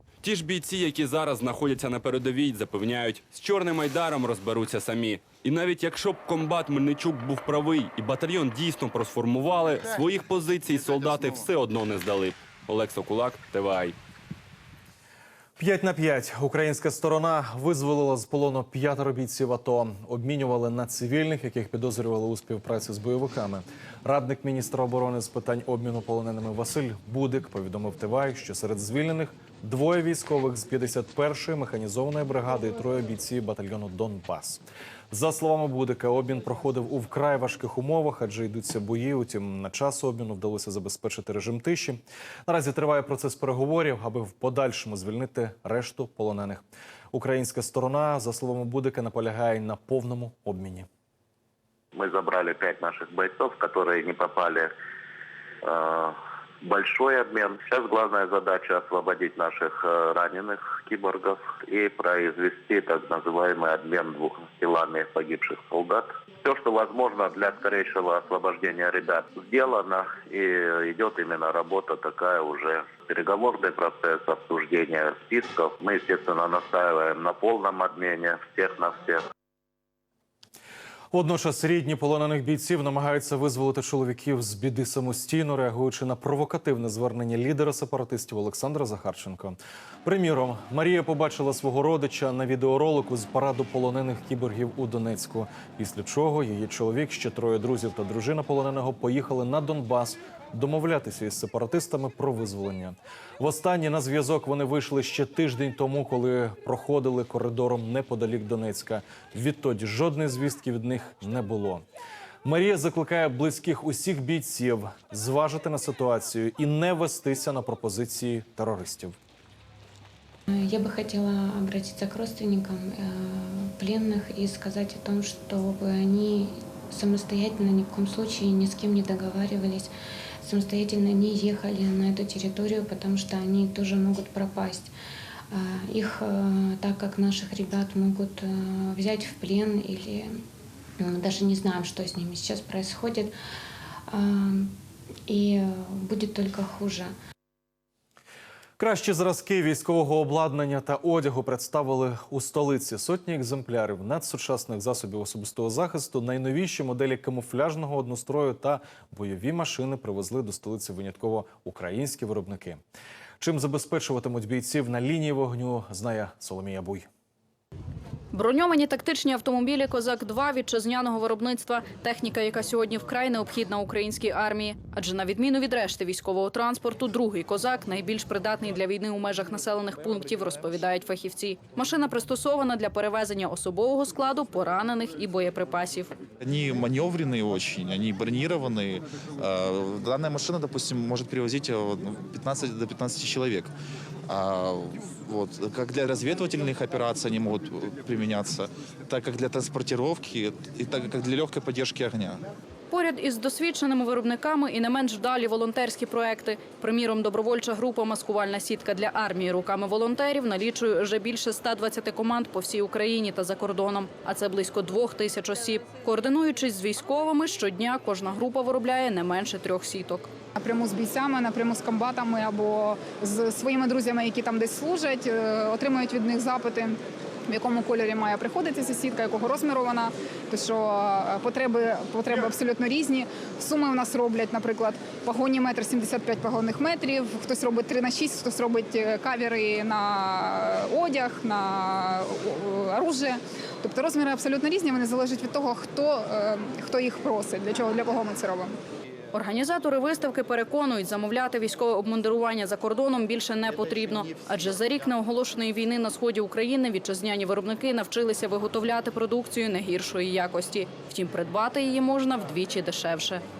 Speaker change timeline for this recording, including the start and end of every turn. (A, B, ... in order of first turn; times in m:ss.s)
0:00.2-0:14.0 A
0:15.6-0:50.9 B
0:52.0-0:54.7 C
0:55.6-1:19.2 C
1:21.1-1:51.8 B
1:52.4-1:59.2 B
2:00.5-2:09.9 D
2:10.4-2:14.9 D
2:15.5-2:20.4 D
2:21.0-2:23.3 D
2:24.1-2:24.7 D
2:25.3-2:27.1 D
2:28.8-2:42.8 B
2:43.4-2:47.1 B
2:48.3-3:06.1 E
3:06.4-3:13.7 F
3:14.3-3:22.4 F
3:22.9-3:40.3 E
3:40.6-4:08.8 G
4:09.3-4:23.4 E